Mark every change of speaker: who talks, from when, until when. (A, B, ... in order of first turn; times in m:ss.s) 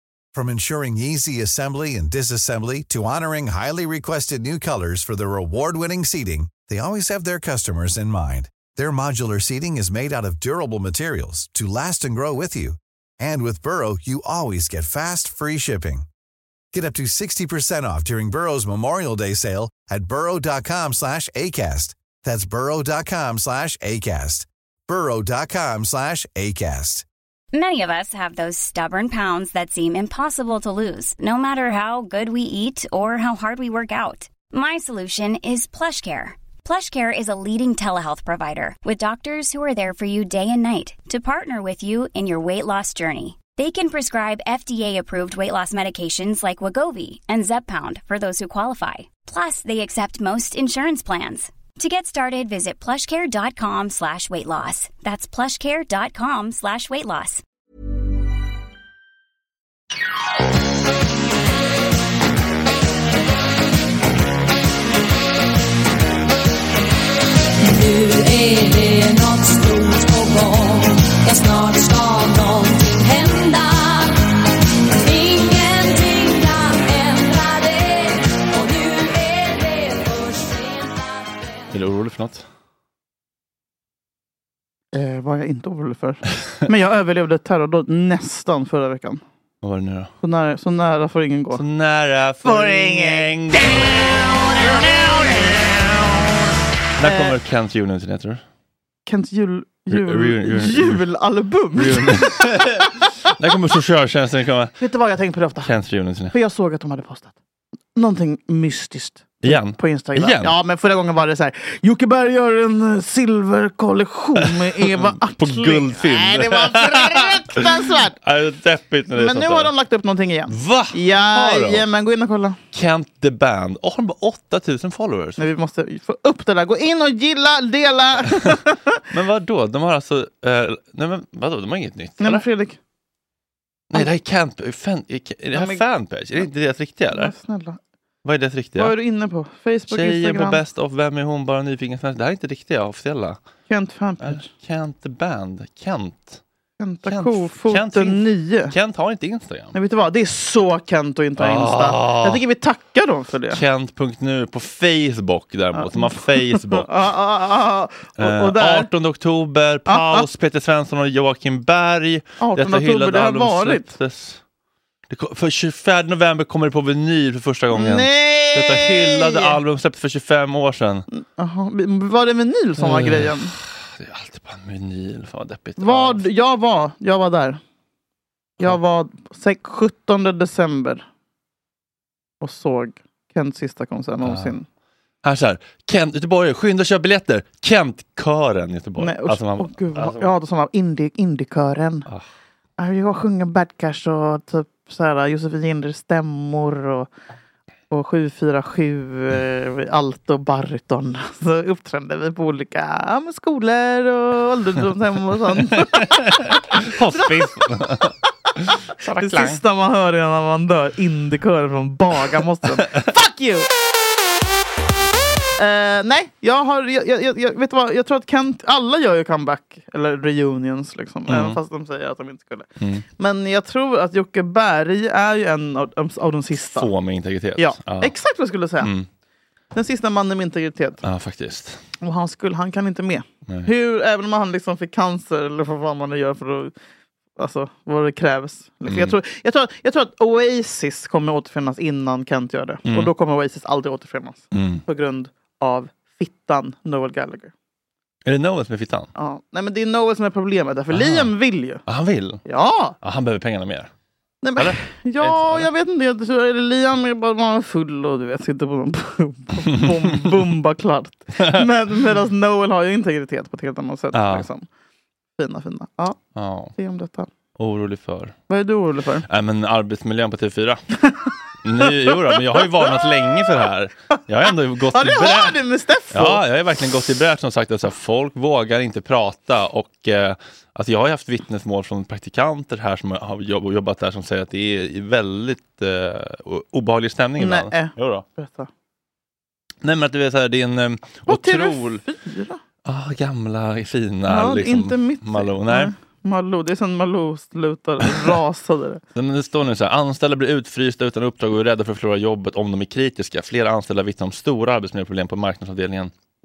0:00.3-0:16.1 A
0:16.7-0:27.0 A
0:27.5-0:57.4 B
1:07.6-1:14.3 C
1:14.9-1:21.5 C
1:21.7-1:22.4 D
1:24.9-1:29.2 E
1:29.6-1:30.1 D
1:30.2-1:31.6 E
1:31.5-1:34.7 D
1:32.4-1:33.8 E
1:37.0-1:38.4 D
1:37.0-1:37.3 E
1:39.0-1:43.0 E
1:39.9-1:41.0 D
1:41.8-1:44.7 D
1:44.8-1:45.7 E
1:45.6-1:46.3 D
1:46.3-1:47.3 E
1:48.0-1:58.2 E
1:49.4-1:50.5 D
1:54.8-1:59.7 D
1:59.1-2:02.6 E
2:00.5-2:01.8 D
2:02.7-2:05.4 D
2:05.4-2:09.0 E
2:09.1-2:12.4 D
2:12.2-2:12.8 E
2:13.9-2:17.3 D
2:15.5-2:15.8 E
2:17.1-2:17.8 E
2:18.2-2:18.9 D
2:18.8-2:20.6 E
2:19.9-2:23.4 D
2:23.7-2:24.5 E
2:24.2-2:26.4 D
2:26.8-2:28.7 E
2:27.0-2:29.7 D
2:29.7-2:33.6 E
2:31.4-2:32.4 D
2:33.5-2:36.9 D
2:35.7-2:38.9 E
2:38.2-2:44.4 D
2:39.9-2:40.2 E
2:42.4-2:43.9 E
2:45.1-2:51.0 D
2:47.7-2:49.5 E
2:51.1-2:53.5 E
2:52.8-2:56.2 D
2:55.8-2:57.6 E
2:58.6-3:01.0 E
3:02.4-3:04.6 E
3:04.2-3:04.6 D
3:05.2-3:10.3 D
3:09.0-3:12.1 E
3:12.8-3:17.1 E
3:17.9-3:27.5 E
3:25.8-3:28.1 D
3:29.0-3:29.6 D
3:29.2-3:33.7 E
3:35.6-3:42.7 E
3:41.3-3:41.6 D
3:42.8-3:43.0 D
3:43.2-3:46.9 E
3:46.7-3:48.1 D
3:47.6-3:48.9 E
3:48.8-3:49.1 D
3:49.7-3:51.0 E
3:51.0-3:51.8 D
3:52.0-3:56.7 E
3:57.4-4:07.5 E
3:58.9-3:59.1 D
4:02.8-4:03.1 D
4:04.5-4:04.8 D
4:08.2-4:09.1 D
4:09.2-4:11.8 E
4:10.9-4:11.3 D
4:11.8-4:12.4 D
4:12.4-4:13.0 E
4:13.0-4:13.9 D
4:14.4-4:24.6 E
4:14.6-4:15.7 D
4:19.6-4:20.3 D
4:21.4-4:21.7 D
4:24.1-4:24.5 D
4:25.4-4:26.2 E
4:26.3-4:26.7 D
4:26.8-4:27.3 E
4:27.6-4:28.4 D
4:28.5-4:29.2 E
4:29.2-4:30.8 D
4:31.6-4:35.6 D
4:32.2-4:32.6 E
4:34.9-4:36.4 E
4:36.1-4:48.2 D
4:47.4-4:48.7 E
4:49.8-4:52.0 D
4:51.3-4:52.6 E
4:52.8-4:55.9 D
4:54.3-4:59.0 E
4:58.1-4:58.3 D
4:59.1-5:06.1 D